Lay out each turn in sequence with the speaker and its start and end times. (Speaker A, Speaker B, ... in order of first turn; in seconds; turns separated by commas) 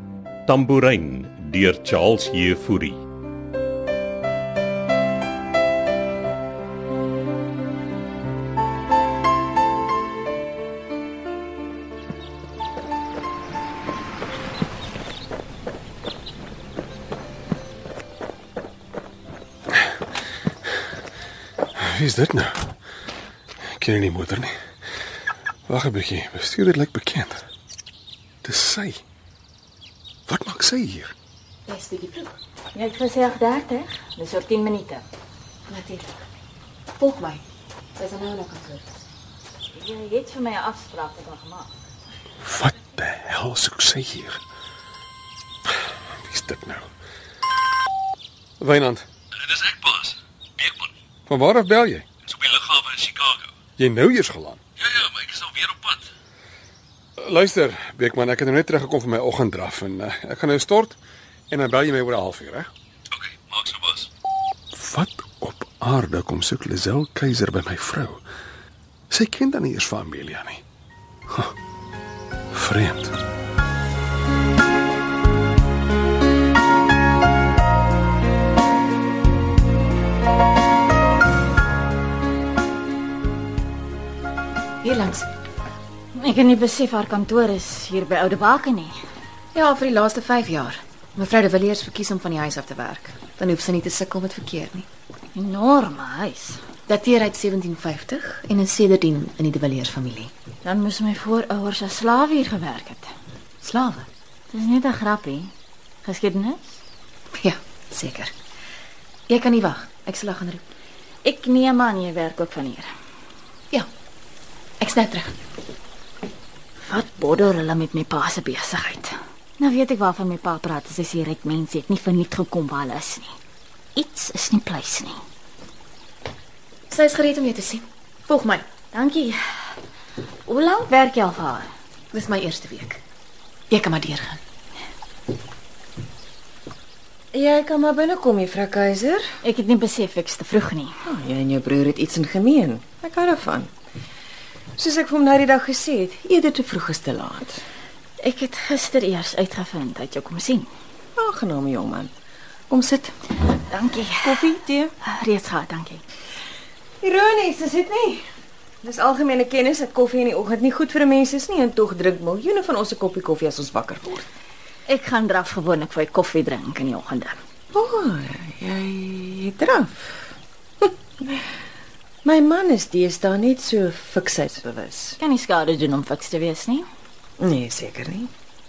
Speaker A: 0.5-3.0, Speaker B: 21.8-22.6, Speaker B: 23.8-24.5, Speaker B: 25.7-27.4, Speaker B: 28.4-29.0, Speaker B: 30.3-31.1, Speaker C: 31.7-32.3, Speaker D: 32.7-35.0, Speaker C: 35.7-36.2, Speaker C: 37.0-37.4, Speaker C: 38.0-39.0, Speaker D: 39.7-41.7, Speaker B: 42.4-44.4, Speaker B: 46.2-46.9, Speaker B: 48.6-49.1, Speaker E: 49.4-50.9, Speaker B: 51.3-52.1, Speaker E: 52.3-53.5, Speaker B: 53.8-54.6, Speaker E: 54.8-56.0, Speaker B: 57.2-61.0, Speaker B: 61.5-62.7, Speaker E: 63.1-64.1, Speaker B: 64.7-68.2, Speaker B: 69.1-70.6, Speaker B: 72.5-73.2, Speaker C: 84.8-85.3, Speaker D: 86.2-88.9, Speaker C: 89.5-94.9, Speaker D: 95.3-96.6, Speaker C: 96.9-100.3, Speaker D: 100.6-103.1, Speaker C: 103.6-104.1, Speaker D: 104.5-105.5, Speaker D: 106.0-106.8, Speaker C: 107.4-108.3, Speaker C: 109.3-110.6, Speaker D: 111.2-112.9, Speaker C: 114.8-115.3, Speaker D: 116.8-123.3, Speaker D: 124.0-125.2, Speaker C: 126.9-128.6, Speaker D: 128.9-129.4, Speaker D: 130.5-131.7, Speaker C: 132.1-133.0, Speaker C: 133.7-134.4, Speaker F: 137.3-139.2, Speaker D: 139.4-140.9, Speaker F: 141.0-143.7, Speaker F: 144.8-147.6, Speaker D: 148.2-150.7, Speaker F: 151.2-152.1, Speaker F: 152.7-153.1, Speaker D: 153.6-154.5, Speaker F: 154.2-154.9, Speaker D: 155.0-156.0, Speaker F: 157.0-158.2, Speaker F: 158.8-164.3, Speaker D: 164.9-167.4, Speaker F: 167.7-171.4, Speaker F: 172.2-175.2, Speaker D: 175.2-176.8, Speaker F: 177.4-178.3